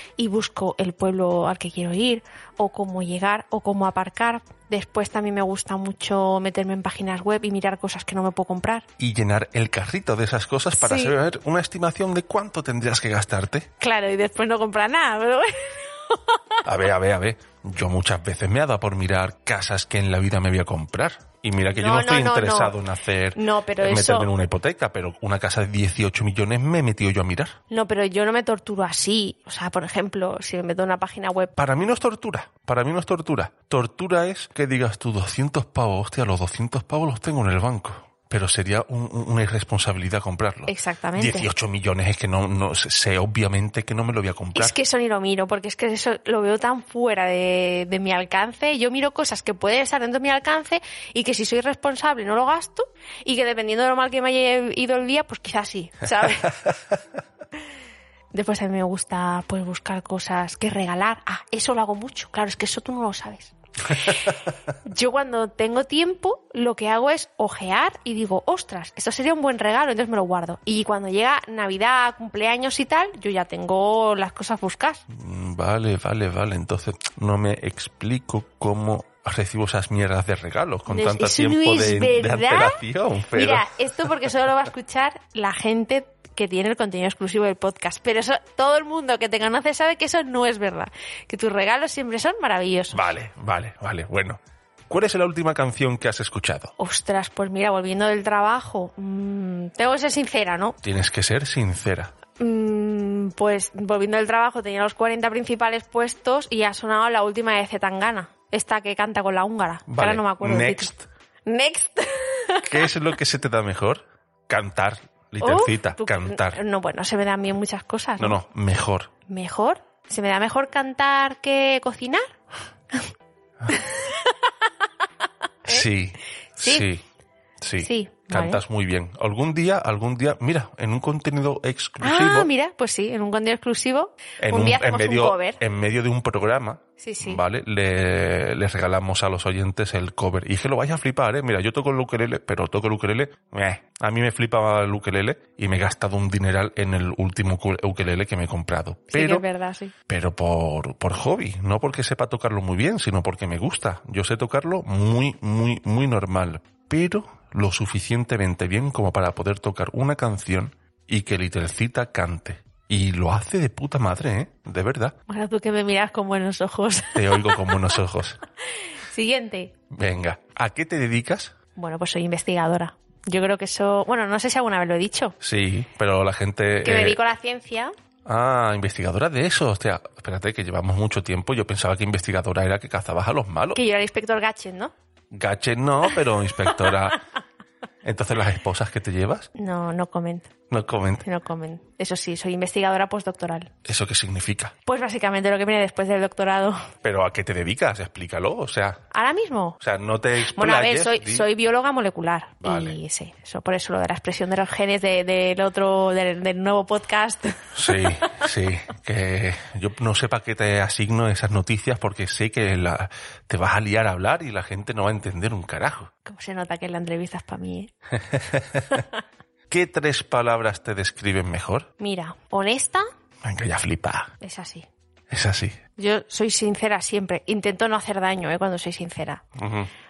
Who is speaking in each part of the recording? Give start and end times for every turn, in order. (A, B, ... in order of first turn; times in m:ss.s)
0:00.2-0:08.9 A
0:09.0-0:13.7 B
0:10.8-0:11.2 A
0:13.8-0:16.4 A
0:16.6-0:27.6 B
0:21.7-0:22.8 A
0:23.4-0:24.3 A
0:27.7-0:31.5 A
0:31.6-0:44.8 B
0:40.7-0:41.5 A
0:44.5-0:56.7 A
0:58.3-1:04.3 A
1:04.8-1:15.0 A
1:15.1-1:23.7 B
1:20.9-1:33.1 A
1:32.9-1:36.7 B
1:36.8-1:40.8 A
1:40.8-1:42.1 B
1:42.4-1:51.0 A
1:49.9-1:51.0 B
1:51.5-1:52.9 A
1:52.6-1:56.6 B
1:55.4-1:58.4 A
1:58.2-1:59.1 B
1:59.3-2:02.2 A
2:03.7-2:04.0 A
2:05.7-2:07.0 B
2:06.6-2:06.9 A
2:07.6-2:12.5 B
2:07.8-2:08.6 A
2:12.0-2:15.6 A
2:14.4-2:29.4 B
2:17.0-2:17.4 A
2:29.1-2:29.9 A
2:30.1-2:45.1 B
2:45.3-2:48.0 A
2:47.2-2:48.4 B
2:49.0-2:49.7 A
2:49.9-2:51.5 B
2:51.8-2:55.4 A
2:55.4-2:57.2 B
2:56.8-2:57.9 A
2:58.3-3:03.8 B
3:03.8-3:04.9 A
3:05.3-3:07.2 B
3:08.0-3:09.5 B
3:09.6-3:10.5 A
3:10.7-3:11.2 B
3:11.2-3:13.7 A
3:13.9-3:14.7 B
3:14.9-3:16.8 A
3:17.0-3:19.0 B
3:19.1-3:19.8 A
3:19.8-3:21.5 B
3:20.5-3:28.2 A
3:22.6-3:23.0 B
3:27.8-3:36.1 B
3:36.3-3:37.9 A
3:38.4-3:38.8 B
3:39.7-3:41.9 B
3:42.0-3:43.0 A
3:43.4-3:44.3 B
3:44.4-3:44.9 A
3:45.3-3:45.8 B
3:46.0-3:49.4 A
3:49.6-3:49.9 B